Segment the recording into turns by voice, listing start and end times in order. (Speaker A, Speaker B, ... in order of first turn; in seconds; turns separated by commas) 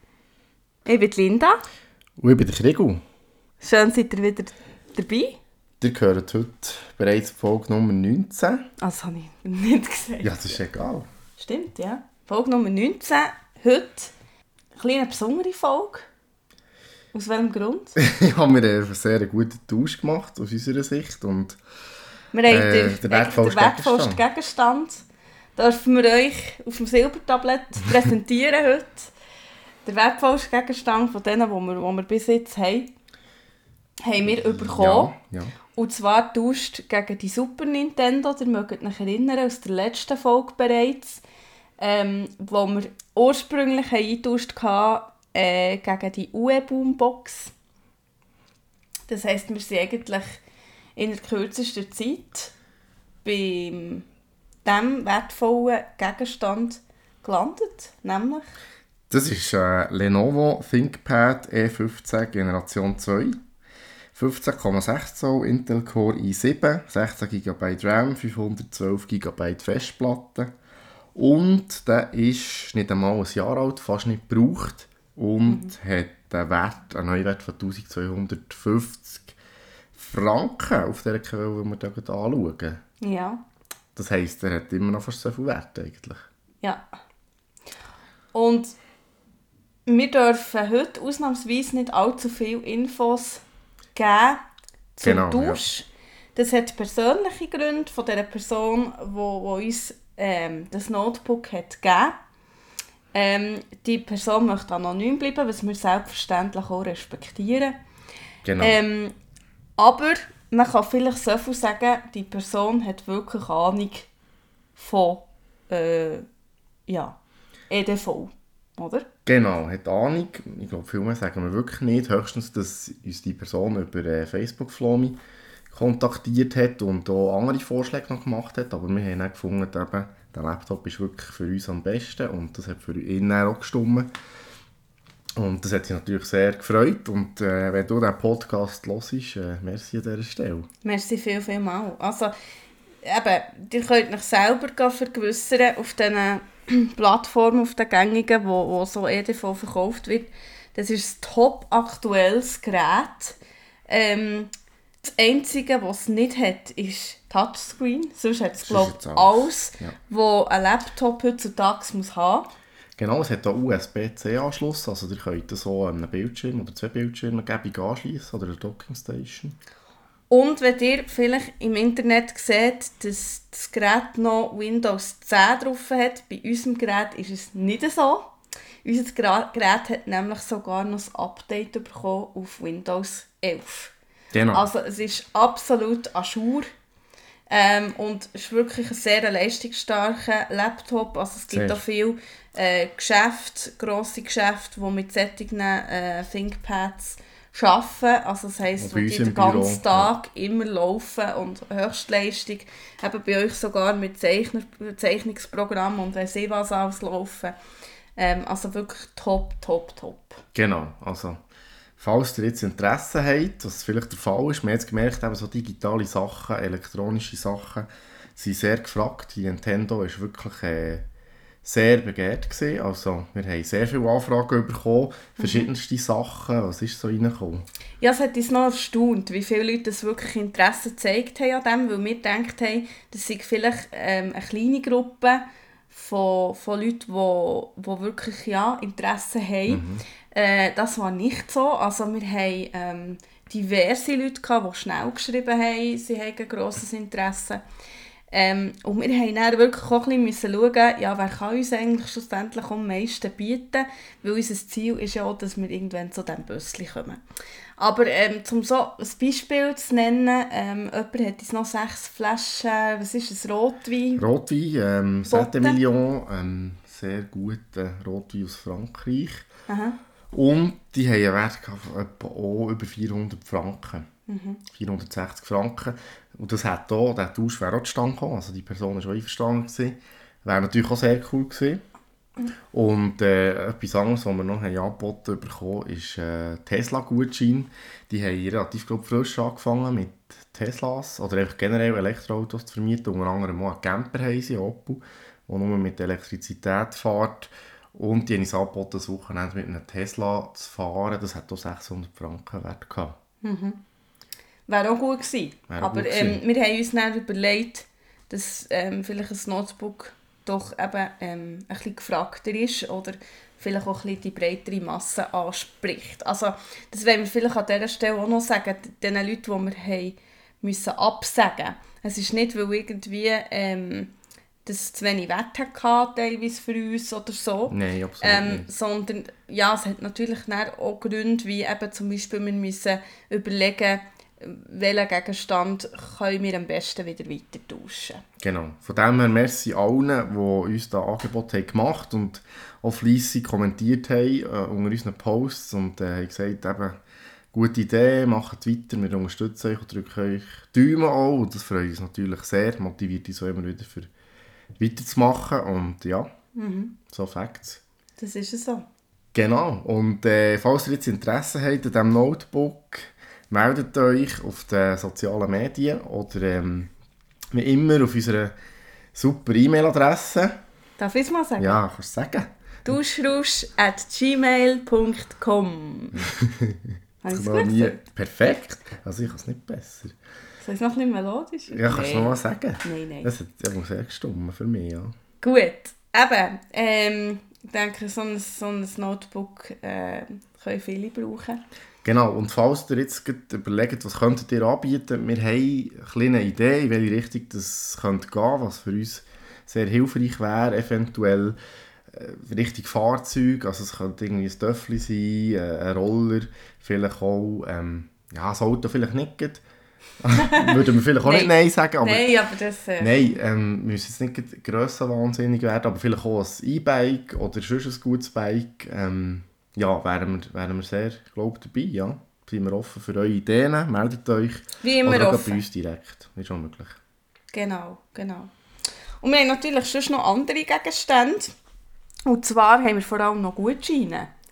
Speaker A: 0.8-1.6, Speaker B: 2.2-3.0, Speaker A: 3.6-5.4, Speaker B: 5.8-8.6, Speaker A: 8.8-10.4, Speaker B: 10.2-11.1, Speaker A: 11.4-14.1, Speaker A: 14.8-16.0, Speaker A: 17.1-18.0, Speaker B: 18.0-21.6, Speaker A: 22.3-25.0, Speaker B: 22.5-24.2, Speaker A: 25.6-29.1, Speaker A: 29.8-32.9, Speaker A: 34.0-35.1, Speaker B: 34.6-35.5, Speaker A: 35.7-41.2, Speaker A: 41.8-47.5, Speaker A: 49.1-50.4, Speaker A: 51.0-52.5, Speaker A: 53.2-54.0, Speaker A: 54.6-58.4, Speaker B: 59.1-63.4, Speaker B: 64.1-70.5, Speaker B: 71.1-79.3, Speaker A: 75.5-75.7, Speaker B: 79.9-82.8, Speaker A: 83.0-83.4, Speaker B: 84.0-86.2, Speaker A: 88.3-88.8, Speaker A: 89.8-93.4, Speaker A: 93.9-94.4, Speaker A: 95.0-102.2, Speaker B: 95.0-95.6, Speaker A: 103.1-107.7, Speaker B: 108.4-108.8, Speaker A: 108.6-109.1, Speaker A: 109.8-114.1, Speaker A: 114.8-116.2, Speaker A: 116.9-117.1, Speaker A: 117.7-119.1, Speaker B: 119.2-125.2, Speaker B: 125.7-134.1, Speaker B: 135.4-140.7, Speaker A: 140.8-142.3, Speaker A: 143.0-154.5, Speaker A: 155.0-162.4, Speaker B: 158.6-159.9, Speaker B: 163.0-169.6, Speaker A: 170.3-178.3, Speaker A: 178.8-183.9, Speaker B: 184.3-184.7, Speaker A: 184.5-186.7, Speaker A: 187.5-207.5, Speaker B: 191.5-191.8, Speaker B: 198.8-200.1, Speaker A: 208.2-210.4, Speaker B: 210.5-211.4, Speaker B: 212.0-221.0, Speaker B: 221.6-227.6, Speaker A: 225.4-225.7, Speaker A: 228.0-247.6, Speaker B: 239.7-240.0, Speaker A: 248.3-257.2, Speaker A: 257.8-264.2, Speaker B: 264.2-269.5, Speaker A: 265.2-265.8, Speaker A: 269.7-270.0, Speaker B: 270.3-274.1, Speaker A: 274.3-274.6, Speaker B: 274.7-281.8, Speaker B: 282.7-303.1, Speaker A: 303.4-303.8, Speaker A: 304.7-324.1, Speaker B: 305.7-306.4, Speaker A: 324.6-338.2, Speaker B: 327.7-328.7, Speaker B: 338.4-347.0, Speaker B: 347.5-354.1, Speaker B: 354.8-356.3, Speaker A: 356.6-356.9, Speaker B: 357.1-357.8, Speaker A: 358.2-358.8, Speaker B: 359.3-366.9, Speaker B: 367.5-368.5, Speaker B: 369.1-370.5, Speaker A: 371.0-371.8, Speaker B: 371.6-372.5, Speaker A: 372.8-376.2, Speaker B: 376.3-380.1, Speaker A: 377.2-378.0, Speaker A: 380.6-383.3, Speaker B: 381.7-385.1, Speaker A: 385.4-391.6, Speaker B: 392.0-401.6, Speaker B: 402.1-409.6, Speaker B: 410.2-412.3, Speaker A: 410.4-413.3, Speaker B: 413.0-427.0, Speaker A: 424.8-425.6, Speaker A: 427.5-428.5, Speaker A: 429.2-431.5, Speaker A: 432.2-434.3